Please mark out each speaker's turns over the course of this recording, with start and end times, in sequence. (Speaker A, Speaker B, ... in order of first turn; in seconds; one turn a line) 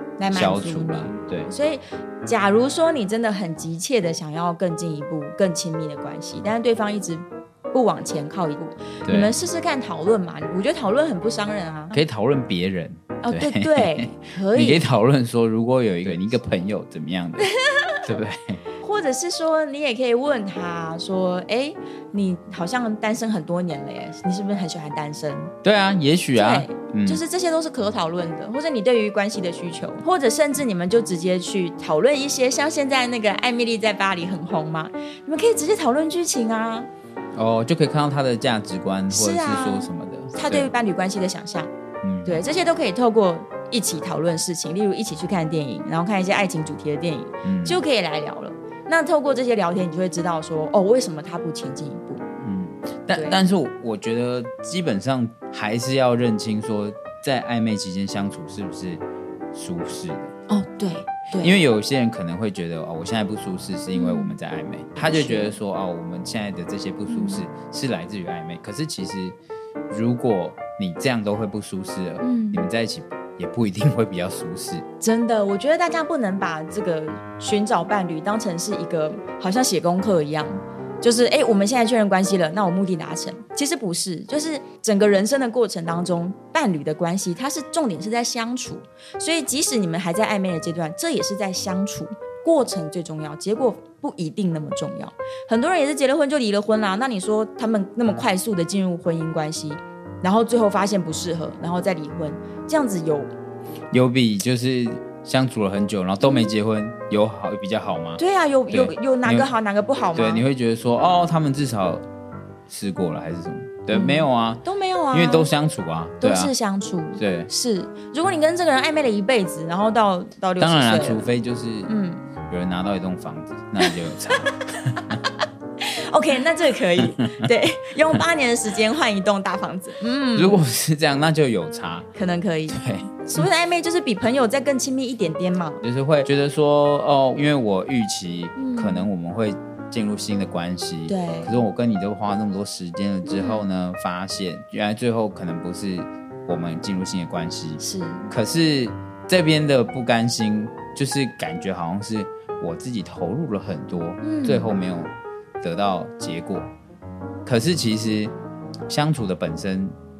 Speaker A: 0.2-12.0
Speaker B: 0.3-1.5
Speaker B: 9.1-9.3
Speaker B: 11.9-17.5
Speaker A: 13.2-14.8
Speaker A: 17.4-18.0
Speaker B: 18.0-18.6
Speaker A: 18.8-25.5
Speaker B: 25.6-27.2
Speaker A: 26.4-36.9
Speaker B: 37.4-40.7
Speaker A: 39.1-41.7
Speaker B: 42.0-42.4
Speaker A: 42.2-52.2
Speaker B: 47.4-47.8
Speaker B: 52.4-59.0
Speaker A: 53.1-53.4
Speaker B: 59.5-60.3
Speaker A: 60.5-61.6
Speaker B: 61.4-69.4
Speaker A: 63.9-64.4
Speaker A: 65.0-65.5
Speaker A: 67.1-67.4
Speaker B: 69.9-74.8
Speaker A: 72.2-72.7
Speaker A: 75.0-103.3
Speaker B: 103.9-109.5
Speaker A: 106.2-106.5
Speaker A: 108.2-110.5
Speaker B: 110.2-112.0
Speaker B: 112.7-116.5
Speaker A: 113.9-115.5
Speaker A: 116.2-121.3
Speaker B: 117.2-117.5
Speaker B: 120.6-121.9
Speaker A: 121.9-122.2
Speaker B: 122.5-125.2
Speaker A: 125.8-130.7
Speaker B: 127.0-127.5
Speaker B: 130.3-132.1
Speaker A: 132.2-135.8
Speaker B: 132.7-133.5
Speaker B: 135.8-156.7
Speaker A: 138.6-139.1
Speaker A: 141.1-141.7
Speaker A: 143.2-143.7
Speaker A: 147.8-148.3
Speaker A: 154.2-154.7
Speaker B: 157.4-158.3
Speaker B: 158.9-160.0